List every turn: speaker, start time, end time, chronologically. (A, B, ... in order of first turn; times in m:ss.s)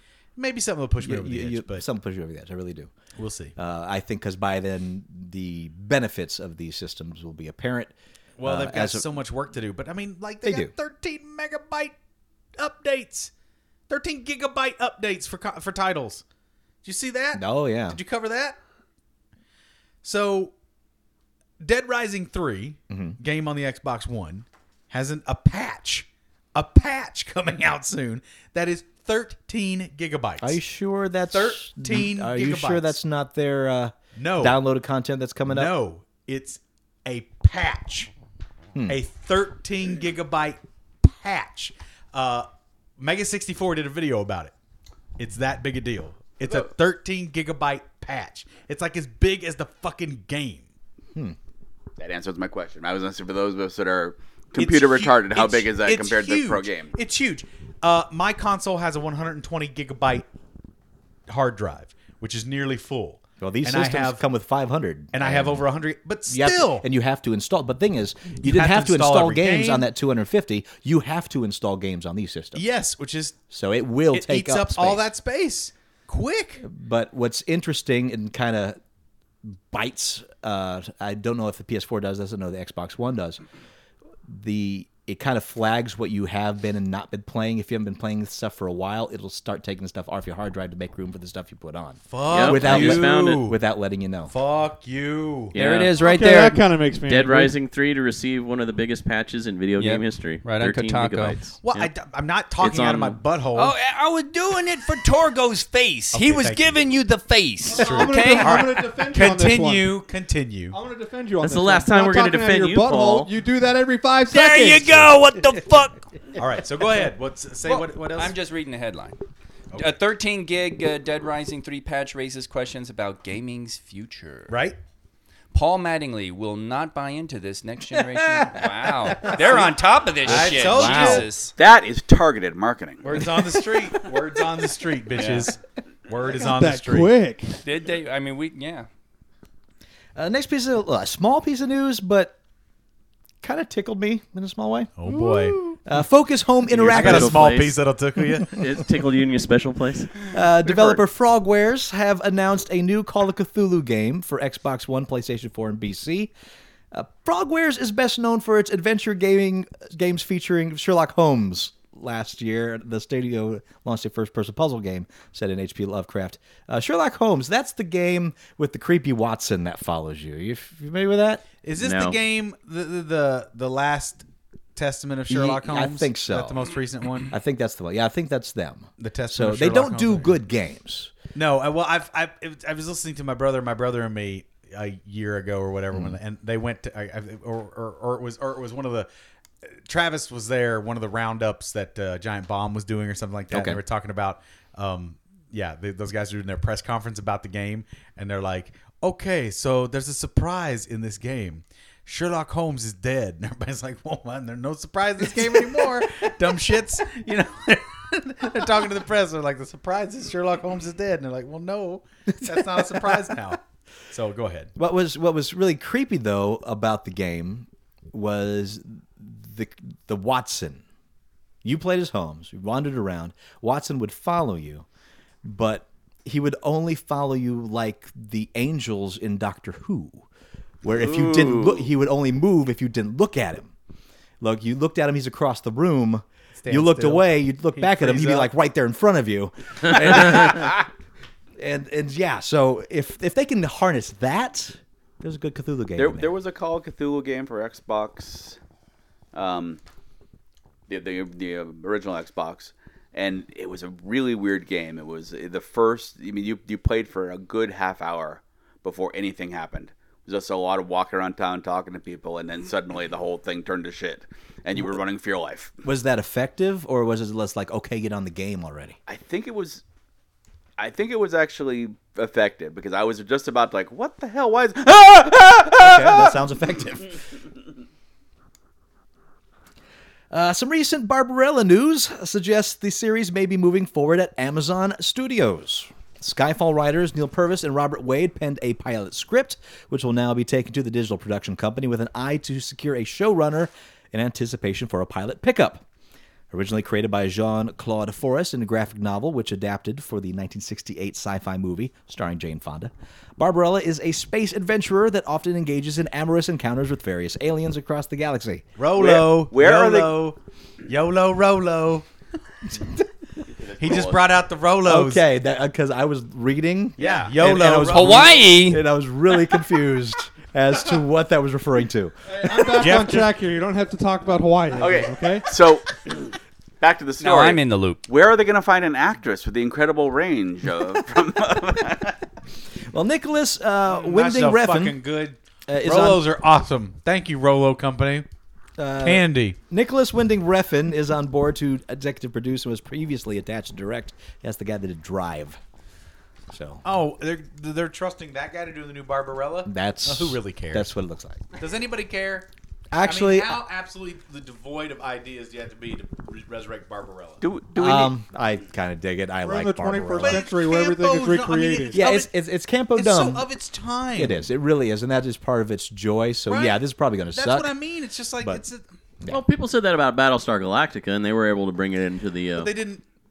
0:00.4-0:01.8 A
0:01.0-0:02.9 B
0:03.2-0:03.5 A
0:03.6-0:07.9 B
0:08.4-0:12.0 A
0:08.4-0:09.1 B
0:10.4-0:10.7 B
0:12.6-0:13.3 A
0:13.9-0:16.2 A
0:16.8-0:18.6 A
0:17.3-0:18.0 B
0:20.0-0:20.5 A
0:21.6-0:30.6 A
0:22.9-0:23.2 B
0:30.4-0:35.7 B
0:31.3-0:32.9 A
0:34.2-0:34.6 A
0:35.4-0:38.1 A
0:38.7-0:39.0 B
0:38.9-0:44.5 A
0:45.2-0:50.7 A
0:52.0-0:56.9 C
0:54.6-1:00.3 A
1:01.3-1:04.2 A
1:03.4-1:05.6 B
1:05.1-1:06.8 A
1:06.3-1:12.6 B
1:08.4-1:09.8 A
1:12.5-1:13.4 A
1:13.5-1:15.0 B
1:14.1-1:16.6 A
1:16.6-1:18.8 B
1:19.4-1:23.4 B
1:24.3-1:34.3 B
1:32.1-1:33.6 A
1:32.3-1:33.4 D
1:34.3-1:35.6 A
1:35.5-1:35.9 D
1:35.5-1:36.7 E
1:36.0-1:37.5 F
1:37.0-1:41.9 D
1:39.8-1:41.4 E
1:41.6-1:43.7 A
1:42.6-1:43.2 D
1:43.5-1:48.7 E
1:46.1-1:46.9 A
1:47.7-1:49.9 F
1:47.7-1:50.8 A
1:50.7-1:55.1 F
1:51.4-1:53.3 D
1:54.3-1:56.1 E
1:56.4-1:58.4 A
1:57.6-1:59.2 E
1:59.8-2:04.6 E
2:04.5-2:04.8 A
2:05.5-2:11.6 E
2:09.1-2:11.3 A
2:10.8-2:13.2 C
2:13.0-2:17.2 A
2:15.1-2:15.5 E
2:16.3-2:17.6 F
2:17.6-2:18.9 E
2:20.1-2:22.3 B
2:23.4-2:27.5 B
2:25.0-2:25.7 A
2:26.7-2:27.8 D
2:26.8-2:28.6 A
2:28.4-2:30.3 D
2:30.3-2:36.3 B
2:36.9-2:51.4 B
2:51.6-2:54.2 A
2:51.8-2:52.2 D
2:54.8-2:57.3 A
2:55.3-2:56.7 B
2:57.3-3:01.1 B
2:59.0-3:00.4 A
3:01.3-3:09.1 A
3:05.9-3:06.2 B
3:09.8-3:34.7 A
3:13.5-3:13.8 B
3:32.4-3:33.5 B
3:34.8-3:40.8 B
3:41.6-3:44.8 B
3:45.4-3:50.2 B
3:50.8-3:53.7 B
3:50.9-3:51.8 C
3:54.4-4:00.8 B
3:56.6-3:58.5 A
4:01.6-4:06.3 B
4:06.0-4:08.6 C
4:09.3-4:09.8 C
4:10.9-4:25.7 C
4:25.8-4:29.0 B
4:29.1-4:29.8 C
4:30.8-4:36.4 C
4:35.8-4:37.1 B
4:40.3-4:55.8 B
4:56.5-5:08.7 B
5:08.8-5:12.0 A
5:08.9-5:10.2 C
5:13.5-5:14.2 C
5:13.8-5:15.2 A
5:14.8-5:22.1 B
5:17.0-5:17.3 C
5:17.0-5:18.5 A
5:17.9-5:18.8 E
5:22.3-5:25.5 F
5:22.6-5:23.3 A
5:24.8-5:32.2 C
5:27.2-5:28.0 E
5:32.9-5:35.0 B
5:33.9-5:38.2 A
5:35.7-5:36.2 B
5:38.8-5:45.6 B
5:39.0-5:39.6 A
5:46.5-5:46.8 B
5:46.8-5:50.9 A
5:49.6-5:51.4 B
5:51.5-5:52.5 A
5:52.9-5:53.6 B
5:53.0-5:57.4 A
5:57.4-5:58.1 C
5:57.8-6:00.4 B
5:59.4-6:02.0 F
6:00.2-6:02.3 A
6:01.9-6:03.4 B
6:02.9-6:04.4 A
6:04.1-6:07.7 B
6:06.5-6:06.8 A
6:07.3-6:08.8 A
6:09.3-6:12.7 D
6:12.6-6:13.0 A